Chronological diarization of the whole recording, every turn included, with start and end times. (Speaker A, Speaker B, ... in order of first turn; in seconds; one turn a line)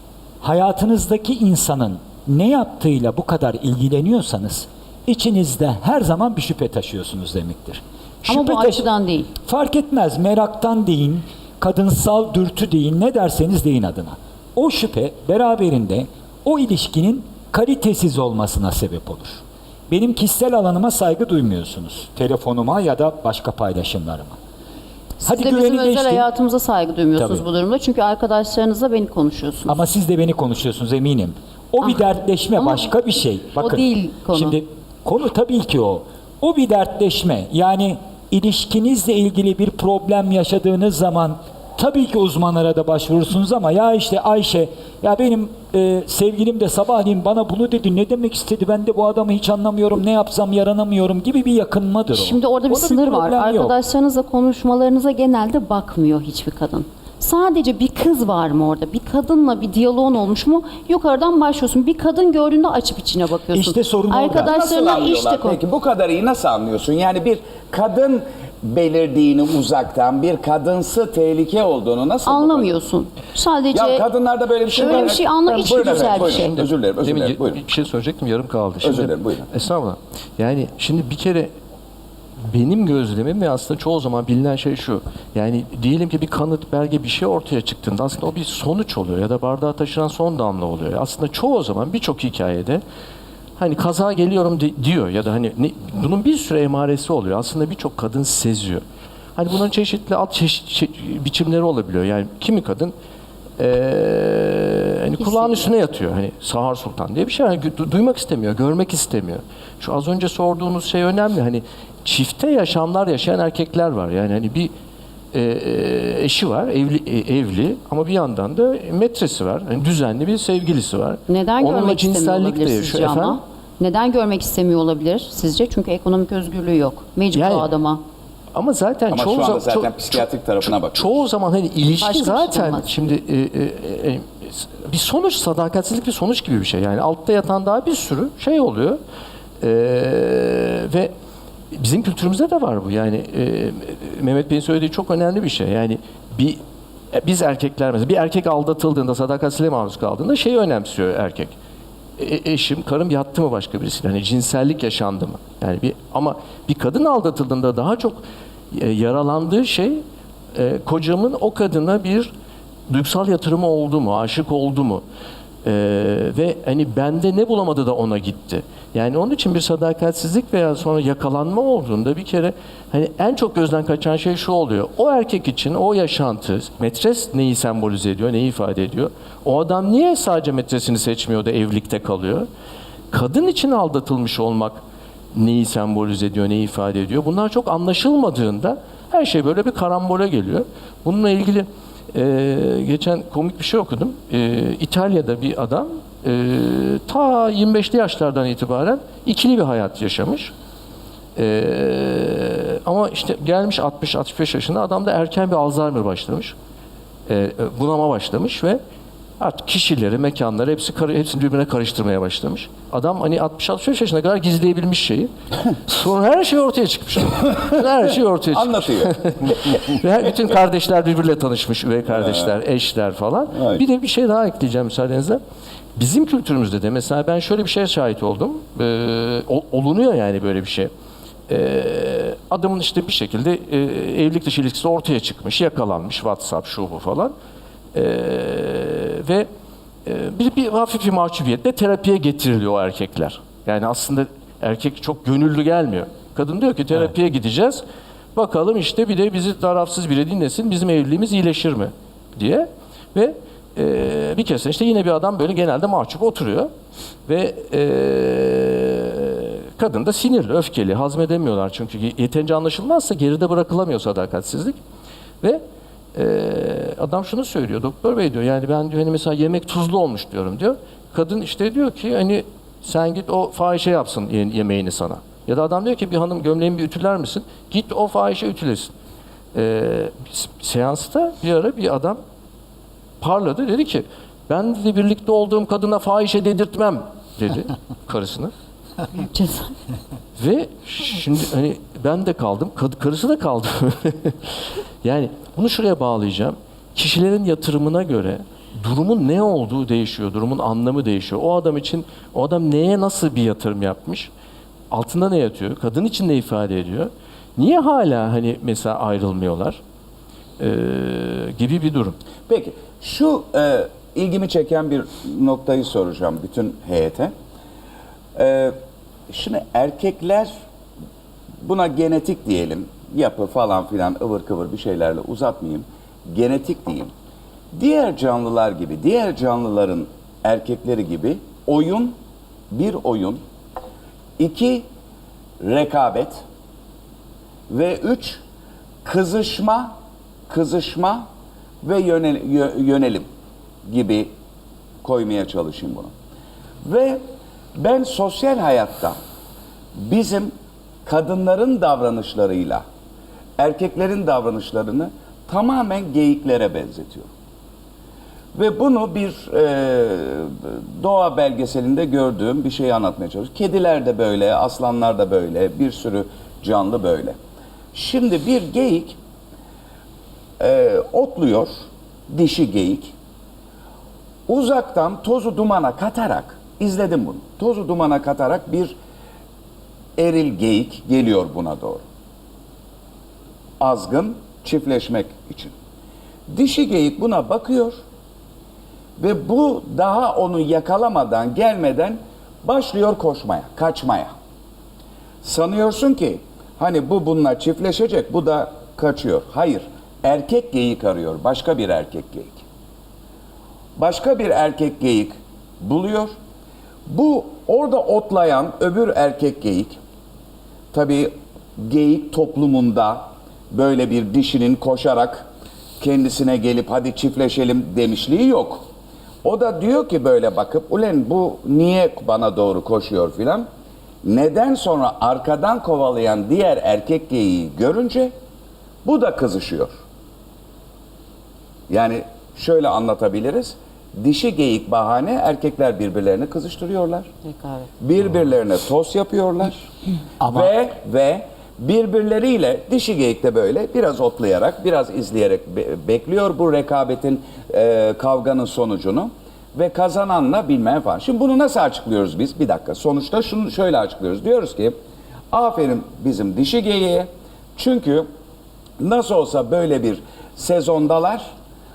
Speaker A: 0.4-24.4
Speaker B: 8.3-9.3
Speaker B: 25.2-29.8
Speaker A: 25.2-26.3
Speaker A: 27.2-27.4
Speaker A: 29.6-53.8
Speaker B: 32.6-32.9
Speaker B: 33.5-34.6
Speaker B: 52.1-65.6
Speaker A: 63.5-64.6
Speaker C: 64.4-72.7
Speaker B: 72.2-74.0
Speaker C: 73.7-77.6
Speaker B: 74.7-76.6
Speaker D: 77.0-81.5
Speaker C: 78.8-79.5
Speaker D: 82.4-92.8
Speaker D: 93.6-98.8
Speaker D: 99.3-102.9
Speaker D: 103.6-114.7
Speaker B: 105.2-105.7
Speaker D: 115.3-123.4
Speaker B: 121.3-128.0
Speaker D: 127.3-127.7
Speaker D: 128.5-139.0
Speaker C: 129.1-131.2
Speaker B: 132.0-133.1
Speaker D: 139.6-141.1
Speaker D: 141.7-146.6
Speaker D: 147.1-151.6
Speaker D: 152.2-162.3
Speaker D: 162.9-165.0
Speaker D: 165.6-182.4
Speaker D: 183.1-184.8
Speaker D: 185.3-200.5
Speaker D: 201.3-206.5
Speaker D: 207.3-208.8
Speaker D: 209.4-225.4
Speaker C: 218.5-219.2
Speaker C: 222.1-222.5
Speaker C: 223.5-223.8
Speaker D: 225.9-230.9
Speaker D: 231.5-237.3
Speaker D: 237.9-239.5
Speaker D: 240.1-247.8
Speaker D: 248.3-256.7
Speaker D: 257.2-264.8
Speaker D: 266.1-278.9
Speaker D: 279.5-282.2
Speaker D: 283.2-288.5
Speaker B: 289.1-289.7
Speaker D: 290.4-304.3
Speaker D: 304.9-309.8
Speaker D: 310.6-312.1
Speaker C: 312.5-317.3
Speaker C: 318.4-318.8
Speaker C: 319.3-320.5
Speaker C: 321.6-327.1
Speaker C: 327.7-332.2
Speaker C: 332.7-333.4
Speaker C: 334.4-334.9
Speaker C: 335.6-336.4
Speaker C: 337.7-338.4
Speaker C: 339.0-339.9
Speaker C: 340.5-341.3
Speaker C: 341.8-343.2
Speaker C: 343.9-344.3
Speaker C: 345.0-346.1
Speaker C: 346.8-347.2
Speaker C: 347.8-349.2
Speaker C: 349.9-350.5
Speaker C: 351.0-352.8
Speaker C: 353.6-357.3
Speaker C: 358.5-367.4
Speaker C: 367.9-369.2
Speaker C: 370.6-371.7
Speaker C: 372.3-373.1
Speaker C: 374.5-378.9
Speaker C: 380.2-382.0
Speaker C: 383.8-385.7
Speaker C: 386.5-388.0
Speaker C: 389.2-394.3
Speaker C: 395.4-402.6
Speaker C: 404.0-406.3
Speaker C: 407.1-410.0
Speaker C: 410.9-415.5
Speaker C: 416.0-418.8
Speaker C: 419.4-423.6
Speaker C: 424.2-428.3
Speaker C: 429.0-429.9
Speaker C: 431.9-437.3
Speaker B: 437.5-437.9
Speaker C: 438.0-439.9
Speaker A: 440.4-440.7
Speaker C: 440.4-454.9
Speaker C: 455.5-458.3
Speaker C: 459.0-461.5